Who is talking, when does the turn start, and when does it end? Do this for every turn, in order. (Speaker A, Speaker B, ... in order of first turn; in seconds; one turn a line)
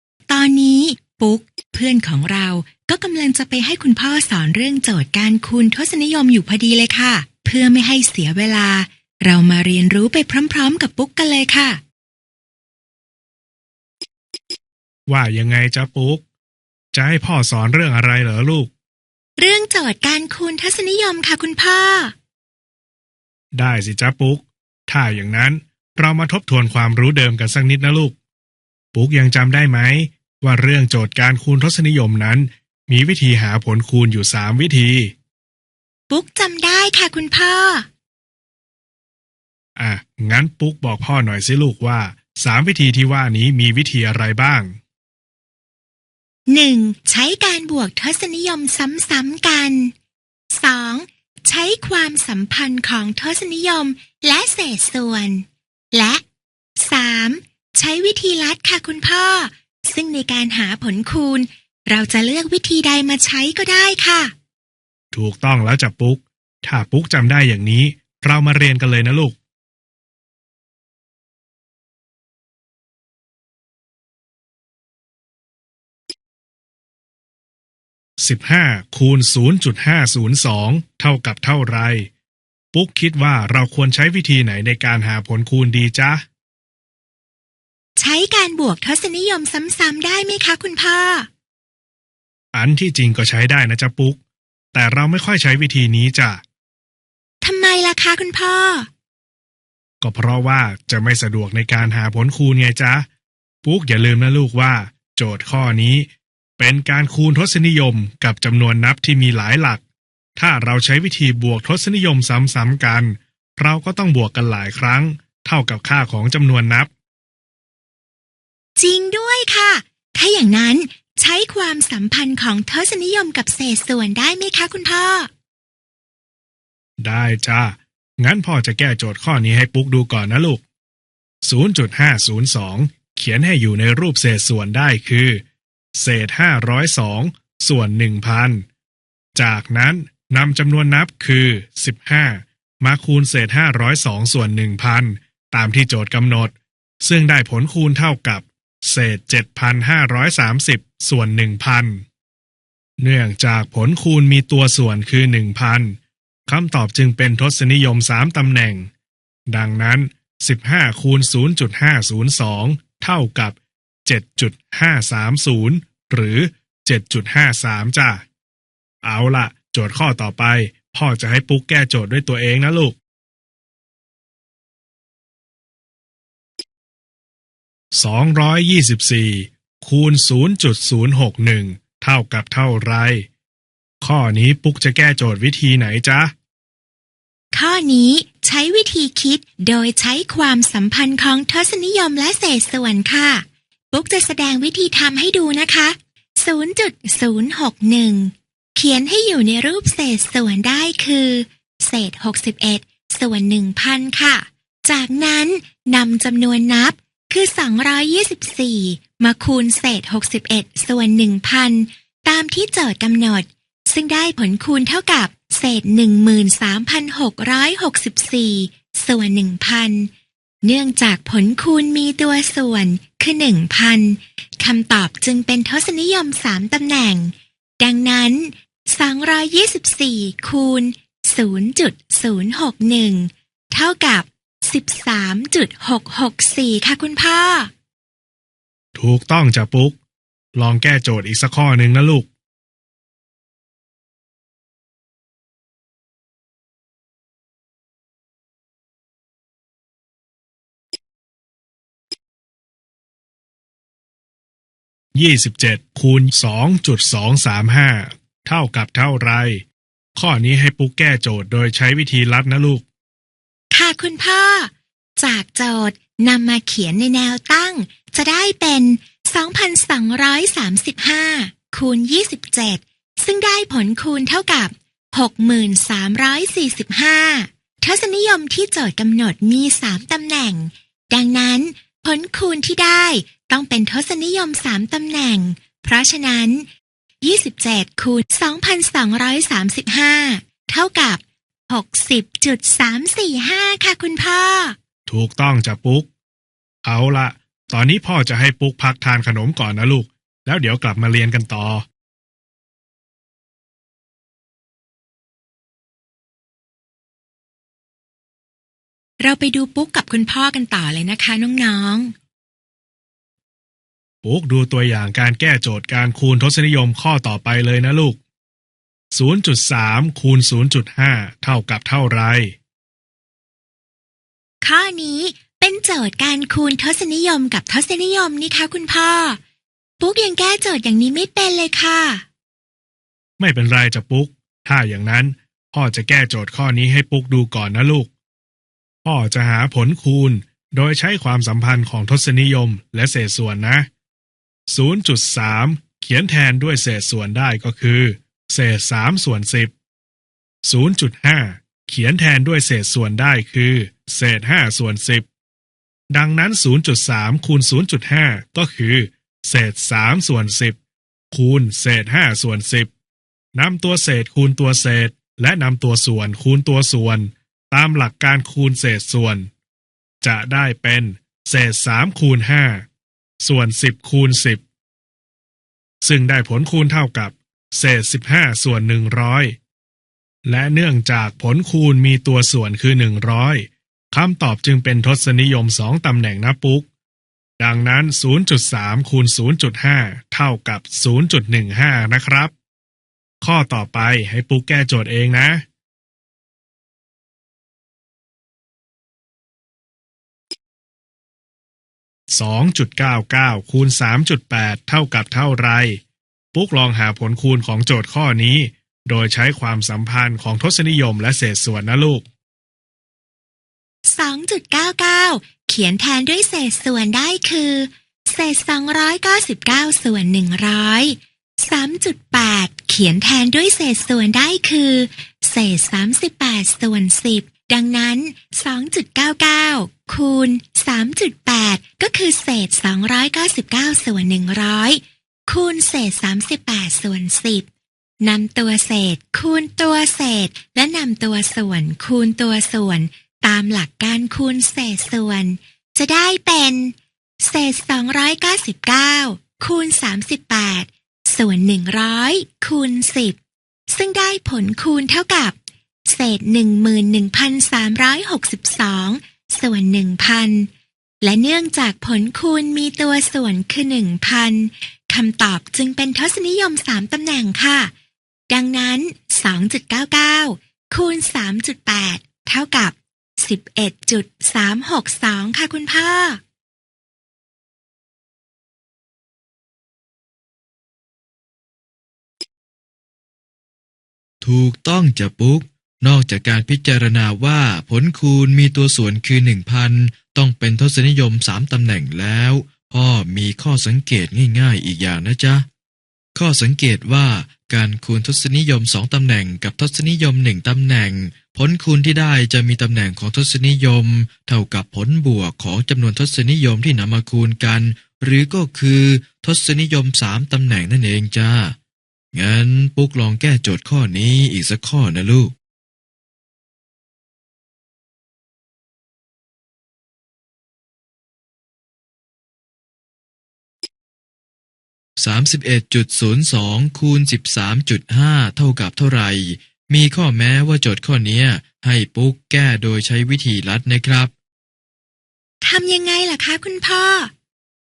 Speaker A: 0.3-11.8
Speaker B: 15.1-16.2
Speaker B: 16.9-18.7
Speaker A: 19.4-22.1
Speaker B: 23.5-28.1
Speaker B: 28.9-35.1
Speaker A: 36.1-37.9
Speaker B: 39.8-44.8
Speaker A: 46.5-49.9
Speaker A: 50.5-56.2
Speaker A: 56.8-64.3
Speaker B: 65.1-69.4
Speaker B: 78.2-82.1
Speaker B: 82.7-86.2
Speaker A: 88.0-91.3
Speaker B: 92.5-94.2
Speaker B: 94.7-96.4
Speaker A: 97.4-98.9
Speaker B: 100.0-103.0
Speaker B: 103.6-109.8
Speaker B: 110.4-116.9
Speaker A: 118.8-125.3
Speaker B: 127.0-130.6
Speaker B: 131.4-135.4
Speaker B: 135.9-138.6
Speaker B: 139.3-152.0
Speaker B: 153.0-155.9
Speaker B: 156.5-158.9
Speaker B: 159.5-168.2
Speaker B: 169.0-173.0
Speaker B: 177.9-183.2
Speaker B: 184.0-186.3
Speaker A: 187.5-220.1
Speaker A: 220.6-237.7
Speaker B: 238.9-240.0
Speaker B: 240.5-242.3
Speaker B: 255.1-259.6
Speaker B: 260.1-262.8
Speaker A: 263.7-286.7
Speaker A: 287.2-294.8
Speaker B: 295.1-296.1
Speaker B: 296.8-301.8
Speaker A: 309.2-312.1
Speaker B: 314.2-318.2
Speaker B: 319.1-322.5
Speaker A: 324.6-329.4
Speaker A: 330.0-332.2
Speaker B: 333.4-338.1
Speaker B: 339.0-343.9
Speaker B: 344.7-349.7
Speaker B: 350.6-355.2
Speaker B: 356.1-360.8
Speaker B: 361.3-362.9
Speaker B: 363.5-369.5
Speaker B: 370.2-372.8
Speaker B: 373.4-374.6
Speaker B: 376.0-379.6
Speaker B: 380.4-386.9
Speaker B: 387.6-392.5
Speaker B: 393.4-395.6
Speaker B: 402.3-406.0
Speaker B: 406.5-412.2
Speaker A: 414.1-437.7
Speaker A: 438.2-453.4
Speaker A: 453.9-460.7
Speaker A: 461.2-467.9
Speaker A: 468.5-476.4
Speaker C: 484.4-495.7
Speaker C: 496.3-511.8
Speaker C: 512.3-515.5
Speaker C: 525.2-534.3
Speaker A: 535.6-537.3